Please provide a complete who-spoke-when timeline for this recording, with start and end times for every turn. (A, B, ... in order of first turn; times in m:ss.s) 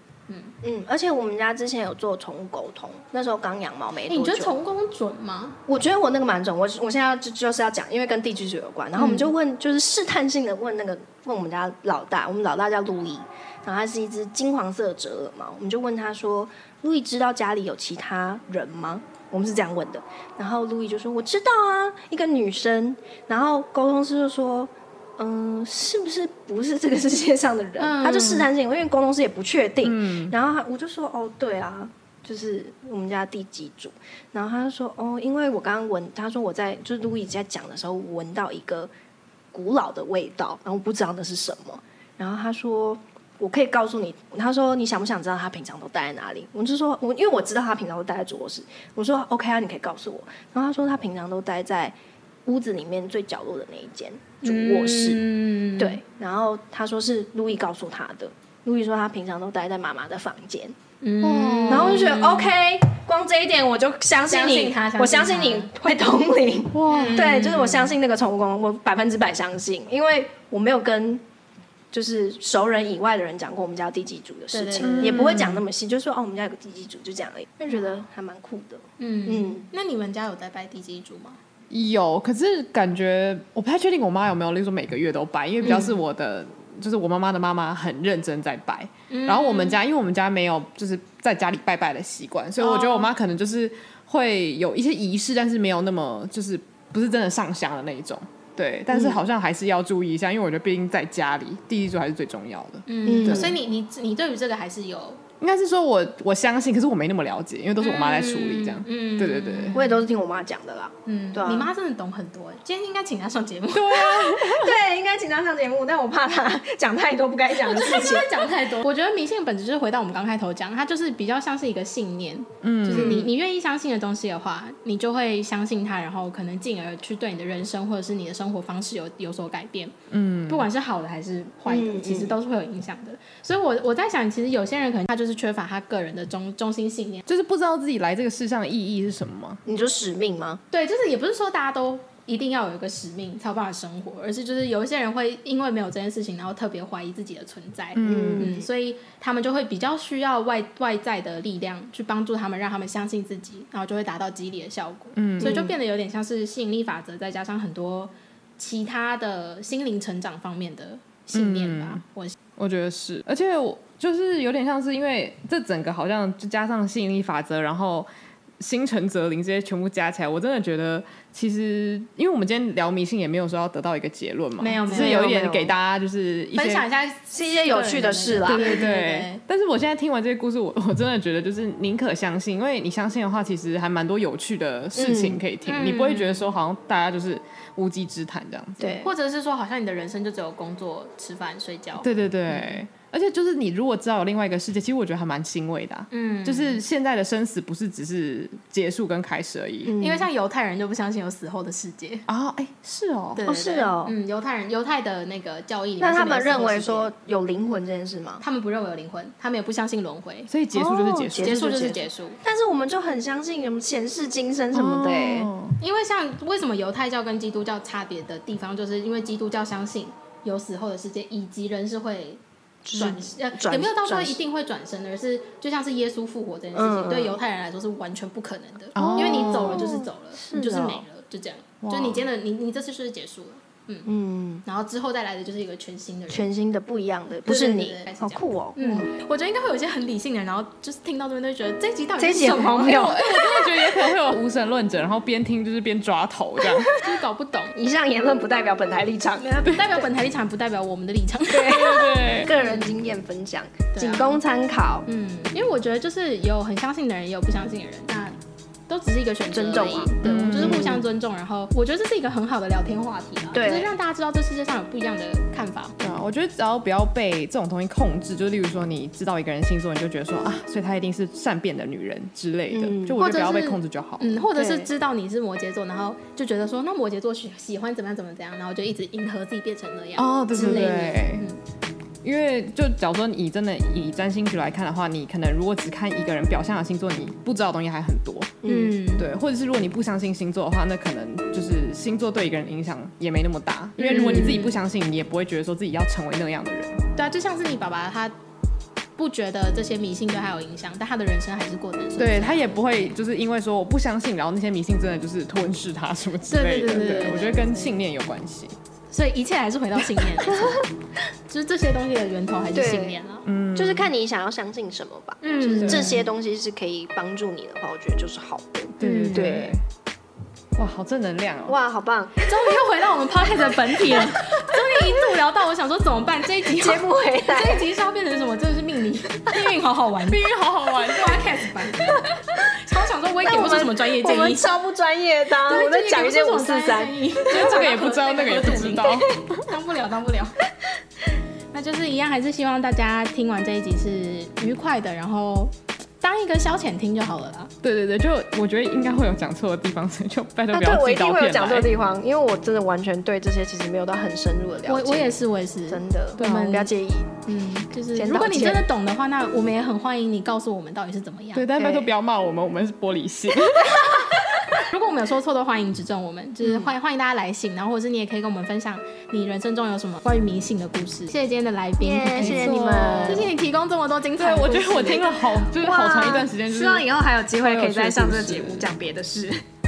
0:00.3-0:00.6 A
0:00.6-0:04.6 B
0:04.1-0:05.6 A
0:05.7-0:38.9 B
0:09.0-0:09.3 A
0:27.8-0:28.5 A
0:29.8-0:30.4 C
0:39.5-0:52.0 B
0:52.5-0:55.2 B
0:54.4-0:56.0 A
0:55.8-1:00.8 B
1:01.0-1:02.5 A
1:01.2-1:02.1 C
1:01.7-1:11.2 B
1:04.3-1:05.7 A
1:06.7-1:07.5 C
1:06.9-1:07.9 A
1:11.9-1:19.7 B
1:14.5-1:15.3 A
1:14.8-1:15.6 C
1:19.0-1:21.4 A
1:21.7-1:43.6 C
1:25.6-1:26.0 A
1:29.1-1:29.8 A
1:32.6-1:33.1 A
1:38.9-1:39.2 B
1:42.9-1:45.2 A
1:43.1-1:43.6 B
1:45.4-1:49.8 C
1:47.8-1:50.0 A
1:49.7-1:51.7 B
1:51.1-1:54.5 A
1:53.7-1:54.8 C
1:54.4-1:58.4 B
1:57.6-2:09.9 A
2:02.6-2:03.3 C
2:02.9-2:03.3 B
2:10.1-2:10.7 C
2:10.5-2:17.2 A
2:11.7-2:12.4 B
2:17.3-2:19.6 C
2:19.6-2:20.6 B
2:20.7-2:42.4 A
2:28.0-2:28.5 C
2:28.0-2:28.7 B
2:35.2-2:35.7 C
2:35.4-2:35.7 B
2:41.3-2:42.0 C
2:42.6-2:48.1 C
2:48.6-2:56.8 C
2:54.6-2:55.3 A
2:54.9-2:55.7 B
2:56.6-2:59.4 A
2:57.3-2:58.8 B
2:58.5-3:08.9 C
3:05.0-3:05.4 B
3:05.6-3:06.5 A
3:08.8-3:09.1 B
3:09.0-3:12.8 A
3:12.0-3:20.0 C
3:16.1-3:16.8 A
3:19.9-3:20.3 B
3:20.0-3:22.3 A
3:22.3-3:23.4 C
3:23.4-3:27.1 A
3:23.5-3:24.2 B
3:26.0-3:28.4 B
3:28.4-3:30.5 A
3:30.5-3:31.8 C
3:30.7-3:35.5 B
3:31.4-3:32.4 A
3:34.7-3:35.8 C
3:35.8-3:42.4 A
3:42.8-3:44.4 B
3:43.0-3:54.1 A
3:46.7-3:47.4 B
3:49.0-3:50.0 C
3:49.0-3:51.0 B
3:51.8-3:52.2 C
3:54.1-3:54.6 B
3:54.6-3:56.5 A
3:56.3-3:59.1 B
3:57.4-4:04.0 A
4:02.2-4:03.2 B
4:02.8-4:06.9 C
4:06.9-4:07.8 A
4:07.8-4:10.1 B
4:09.4-4:12.9 A
4:11.5-4:15.1 B
4:11.7-4:12.5 C
4:13.9-4:14.4 A
4:15.1-4:18.4 A
4:18.9-4:26.0 A
4:19.5-4:21.0 B
4:20.2-4:21.0 C
4:23.5-4:23.9 B
4:26.0-4:34.8 C
4:32.7-4:33.2 B
4:33.2-4:41.6 A
4:40.2-4:41.4 C
4:40.6-4:40.9 B
4:42.2-4:48.6 C
4:48.6-4:49.0 B
4:48.7-4:49.3 A
4:49.2-4:57.0 C
4:54.0-4:54.8 A
4:57.2-4:58.4 A
4:59.2-5:02.7 A
5:02.2-5:08.8 C
5:06.4-5:08.0 A
5:09.1-5:10.9 A
5:10.5-5:10.8 B
5:11.5-5:13.5 A
5:12.7-5:13.2 B
5:13.4-5:14.1 C
5:13.8-5:19.8 B
5:15.4-5:16.2 A
5:15.8-5:16.2 C
5:19.0-5:19.8 C
5:19.0-5:19.7 A
5:20.8-5:21.8 C
5:21.7-5:22.8 B
5:22.4-5:34.7 A
5:26.7-5:27.8 B
5:30.2-5:31.5 C
5:33.4-5:39.2 B
5:35.6-5:40.6 A
5:37.5-5:39.6 C
5:41.7-5:47.7 A
5:47.8-5:51.9 C
5:50.7-5:55.4 B
5:54.9-5:56.9 A
5:55.9-5:57.4 B
5:56.4-5:56.7 C
5:57.4-6:02.0 A
5:58.0-5:58.8 B
6:01.5-6:04.8 C
6:03.8-6:15.7 A
6:12.0-6:13.5 B
6:12.4-6:13.5 C
6:14.4-6:18.9 C
6:15.8-6:19.6 B